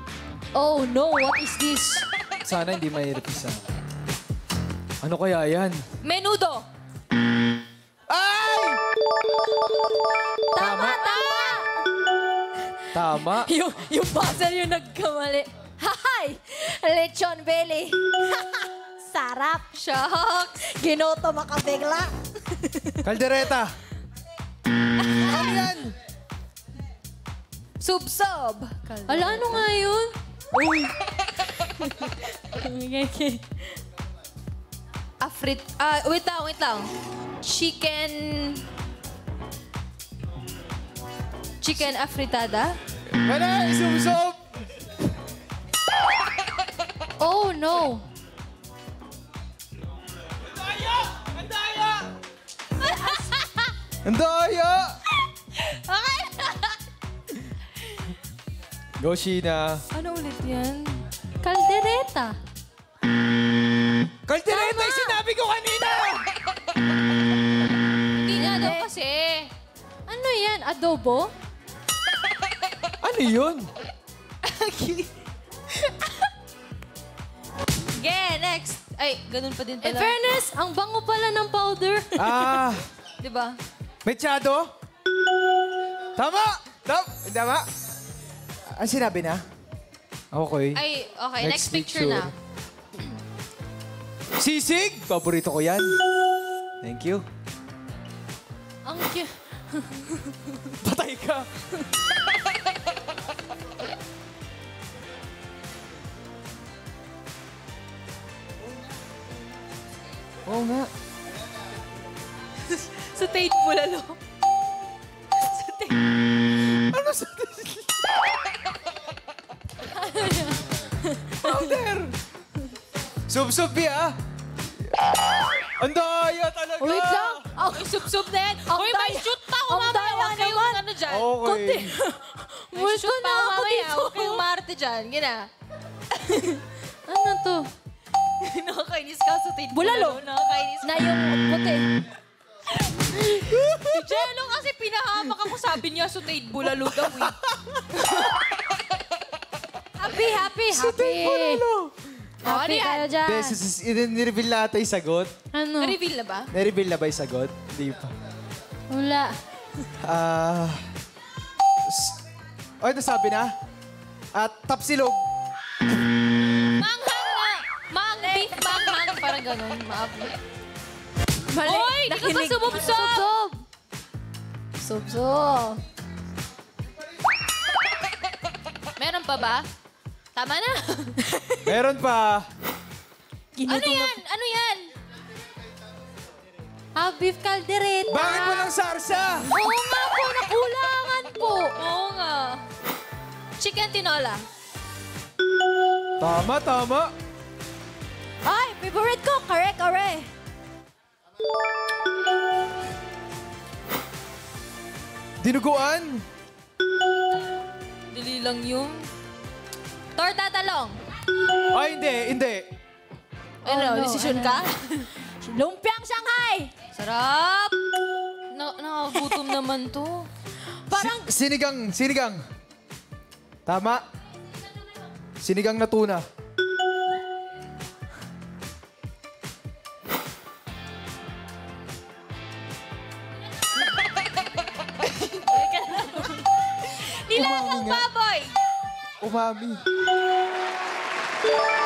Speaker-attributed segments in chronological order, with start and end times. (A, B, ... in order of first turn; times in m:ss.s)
0:00.5-0:02.0 A
0:02.4-0:03.7 B
0:05.0-0:05.8 B
0:06.0-0:06.7 C
0:08.1-0:08.8 B
0:10.5-0:11.7 A
0:10.6-0:11.0 B
0:11.0-0:11.6 C
0:12.9-0:13.5 B
0:13.1-0:19.6 A
0:19.7-0:20.6 C
0:20.6-0:23.1 A
0:23.0-0:23.7 B
0:25.0-0:25.5 C
0:25.2-0:25.9 B
0:25.3-0:25.6 A
0:27.8-0:29.6 C
0:29.1-0:30.9 A
0:31.6-0:33.4 A
0:35.2-0:36.9 C
0:37.4-0:38.6 C
0:41.6-0:42.8 C
0:43.2-0:44.4 B
0:47.2-0:48.0 A
0:50.7-0:52.1 B
0:52.8-0:53.5 C
0:52.8-0:53.3 A
0:54.0-0:55.0 B
0:55.6-0:56.7 C
0:59.0-0:59.8 B
0:59.9-1:01.0 C
1:01.4-1:02.4 A
1:04.2-1:06.3 B
1:04.5-1:05.2 A
1:08.1-1:09.5 C
1:08.3-1:08.9 A
1:10.1-1:11.3 A
1:13.0-1:13.7 B
1:14.5-1:15.1 C
1:17.9-1:20.1 C
1:19.8-1:22.7 A
1:22.2-1:22.8 B
1:23.2-1:23.6 C
1:24.0-1:24.7 B
1:26.2-1:27.6 B
1:28.7-1:29.4 B
1:30.3-1:30.8 B
1:30.7-1:32.3 C
1:31.4-1:32.3 B
1:34.4-1:36.0 B
1:36.8-1:37.2 B
1:38.8-1:40.6 A
1:40.8-1:41.5 B
1:50.4-1:50.9 B
1:52.6-1:54.2 C
1:55.4-1:56.0 C
1:56.6-1:58.0 B
2:00.0-2:00.6 A
2:01.2-2:01.7 A
2:01.4-2:02.2 B
2:03.3-2:04.2 B
2:04.9-2:07.4 B
2:06.8-2:08.1 A
2:07.7-2:11.5 C
2:08.6-2:10.8 A
2:11.1-2:12.0 B
2:11.4-2:14.4 A
2:12.7-2:15.5 C
2:16.3-2:17.7 A
2:18.4-2:21.1 C
2:19.7-2:20.3 A
2:20.8-2:21.9 A
2:23.1-2:24.3 B
2:23.8-2:27.4 C
2:26.8-2:27.8 B
2:28.0-2:28.3 C
2:30.0-2:31.6 A
2:30.7-2:32.0 B
2:32.4-2:33.6 A
2:32.4-2:33.1 C
2:33.2-2:35.3 B
2:35.5-2:36.0 A
2:35.8-2:36.5 C
2:36.5-2:38.1 B
2:38.9-2:39.4 A
2:40.0-2:40.8 B
2:41.9-2:42.2 B
2:42.8-2:43.5 B
2:44.3-2:45.2 B
2:46.6-2:50.4 C
2:48.2-2:49.0 A
2:51.5-2:53.6 A
2:51.6-2:53.3 C
2:54.8-2:55.8 A
2:59.0-2:59.7 C
3:00.3-3:01.2 C
3:01.3-3:01.7 A
3:01.6-3:02.4 B
3:03.6-3:04.2 A
3:03.6-3:04.9 C
3:06.9-3:08.7 A
3:08.1-3:09.5 B
3:09.5-3:11.8 A
3:11.8-3:12.6 C
3:13.6-3:14.4 C
3:16.2-3:17.1 B
3:18.4-3:20.3 A
3:25.4-3:26.2 B
3:28.1-3:29.1 C
3:30.1-3:31.0 C
3:31.7-3:32.7 B
3:33.6-3:35.1 C
3:33.6-3:34.7 A
3:35.2-3:36.7 A
3:36.9-3:37.8 C
3:38.5-3:40.3 C
3:40.9-3:41.3 A
3:40.9-3:42.4 B
3:43.6-3:44.0 B
3:45.4-3:46.2 B
3:55.3-3:58.6 C
3:57.3-3:58.1 B
3:59.2-3:59.8 B